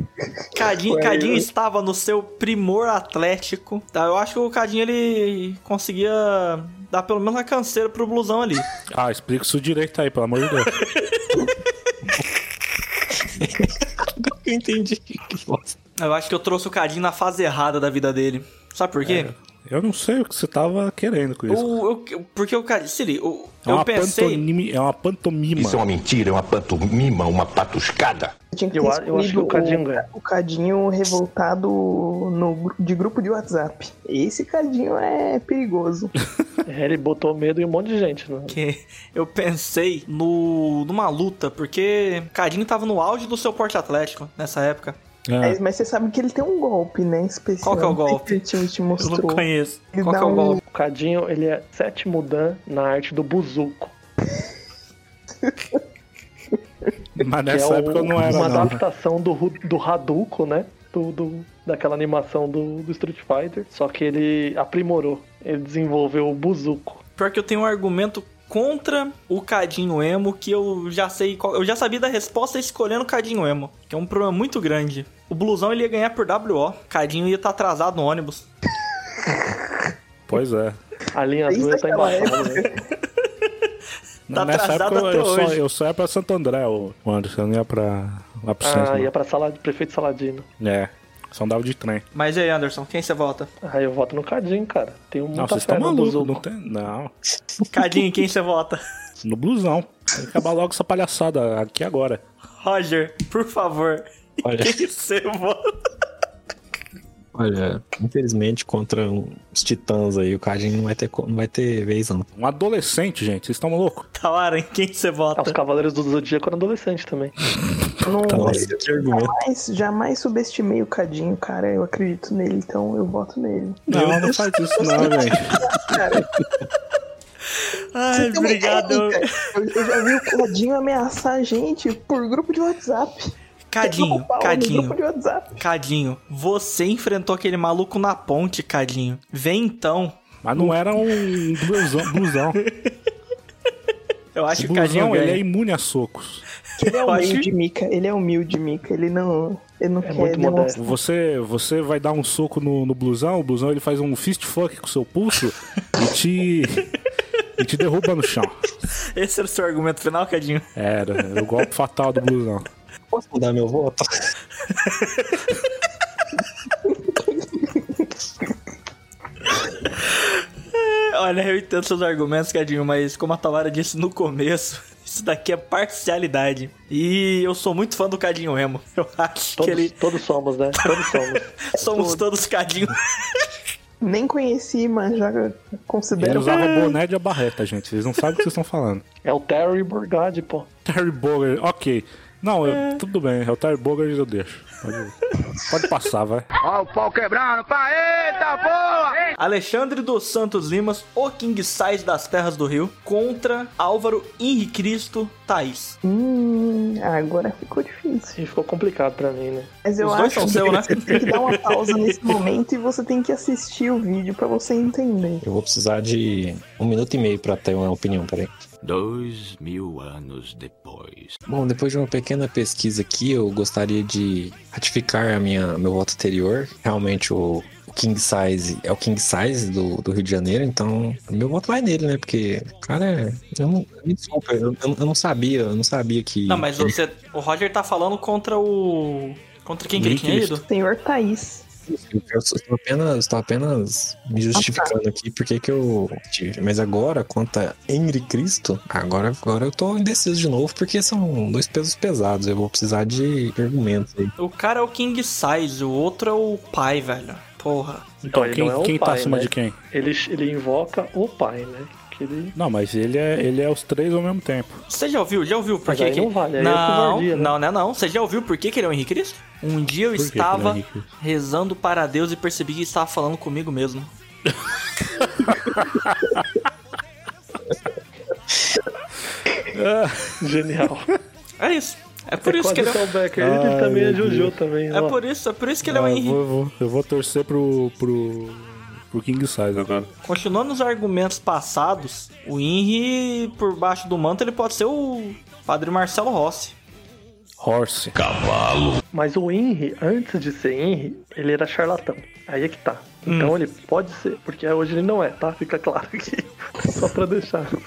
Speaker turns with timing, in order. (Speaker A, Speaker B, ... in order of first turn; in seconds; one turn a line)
Speaker A: 0.5-8.7
Speaker B: 0.8-1.5
Speaker C: 8.9-10.7
Speaker A: 10.9-11.4
Speaker D: 13.3-15.8
Speaker A: 16.0-19.3
Speaker C: 19.1-21.8
Speaker A: 21.5-24.4
Speaker C: 23.6-25.8
Speaker E: 25.6-28.3
Speaker B: 28.5-36.1
Speaker F: 28.7-30.1
Speaker F: 36.7-38.6
Speaker A: 38.5-45.0
Speaker C: 45.3-45.6
Speaker B: 45.4-50.6
Speaker A: 47.6-48.4
Speaker A: 49.0-50.6
Speaker F: 50.7-53.9
Speaker B: 55.5-55.8
Speaker C: 57.2-58.8
Speaker F: 57.5-67.0
Speaker A: 67.2-78.5
Speaker C: 80.3-80.8
Speaker F: 81.1-82.6
Speaker B: 81.5-82.7
Speaker C: 84.3-89.1
Speaker A: 84.3-85.6
Speaker F: 88.6-90.5
Speaker C: 90.6-92.0
Speaker A: 92.1-93.5
Speaker F: 93.6-96.4
Speaker C: 95.3-97.1
Speaker A: 97.7-98.8
Speaker C: 99.2-102.2
Speaker A: 102.6-105.7
Speaker D: 104.4-104.8
Speaker D: 107.3-112.3
Speaker C: 112.4-114.0
Speaker A: 114.1-115.6
Speaker F: 115.4-117.3
Speaker B: 118.0-126.3
Speaker C: 118.3-118.6
Speaker D: 118.3-119.3
Speaker C: 123.9-125.6
Speaker A: 127.9-129.3
Speaker B: 128.1-133.3
Speaker A: 133.7-135.0
Speaker B: 133.8-135.5
Speaker A: 135.6-140.2
Speaker C: 140.4-142.6
Speaker A: 142.5-142.9
Speaker A: 144.3-145.4
Speaker C: 144.5-146.4
Speaker B: 146.8-150.9
Speaker A: 146.8-147.5
Speaker F: 150.0-150.8
Speaker C: 150.7-156.9
Speaker C: 157.6-158.6
Speaker A: 159.1-160.7
Speaker C: 160.8-162.7
Speaker D: 163.1-164.0
Speaker A: 164.7-165.4
Speaker A: 170.7-179.9
Speaker F: 179.6-181.4
Speaker A: 180.8-183.0
Speaker B: 181.8-182.2
Speaker B: 184.0-186.9
Speaker C: 186.2-189.0
Speaker F: 189.2-190.7
Speaker C: 190.8-195.2
Speaker A: 192.7-192.9
Speaker C: 195.7-196.4
Speaker G: 196.6-199.2
Speaker A: 199.4-206.0
Speaker B: 206.0-208.4
Speaker F: 208.3-209.7
Speaker B: 209.8-215.4
Speaker A: 210.0-212.3
Speaker D: 215.4-218.5
Speaker H: 218.8-221.4
Speaker D: 221.5-237.0
Speaker A: 236.5-240.6
Speaker C: 240.0-240.5
Speaker B: 240.7-241.6
Speaker D: 241.9-254.3
Speaker B: 244.5-244.9
Speaker A: 254.4-258.1
Speaker C: 258.2-259.8
Speaker F: 258.2-262.5
Speaker C: 262.5-264.8
Speaker A: 264.9-274.1
Speaker F: 265.8-267.5
Speaker C: 270.1-271.1
Speaker C: 275.2-276.4
Speaker C: 279.7-280.4
Speaker F: 280.4-281.1
Speaker A: 281.6-283.0
Speaker F: 282.4-285.2
Speaker C: 283.4-284.5
Speaker A: 284.9-286.4
Speaker C: 285.8-290.1
Speaker A: 290.2-296.7
Speaker C: 297.6-298.2
Speaker E: 298.2-299.0
Speaker F: 299.1-307.7
Speaker A: 303.2-303.5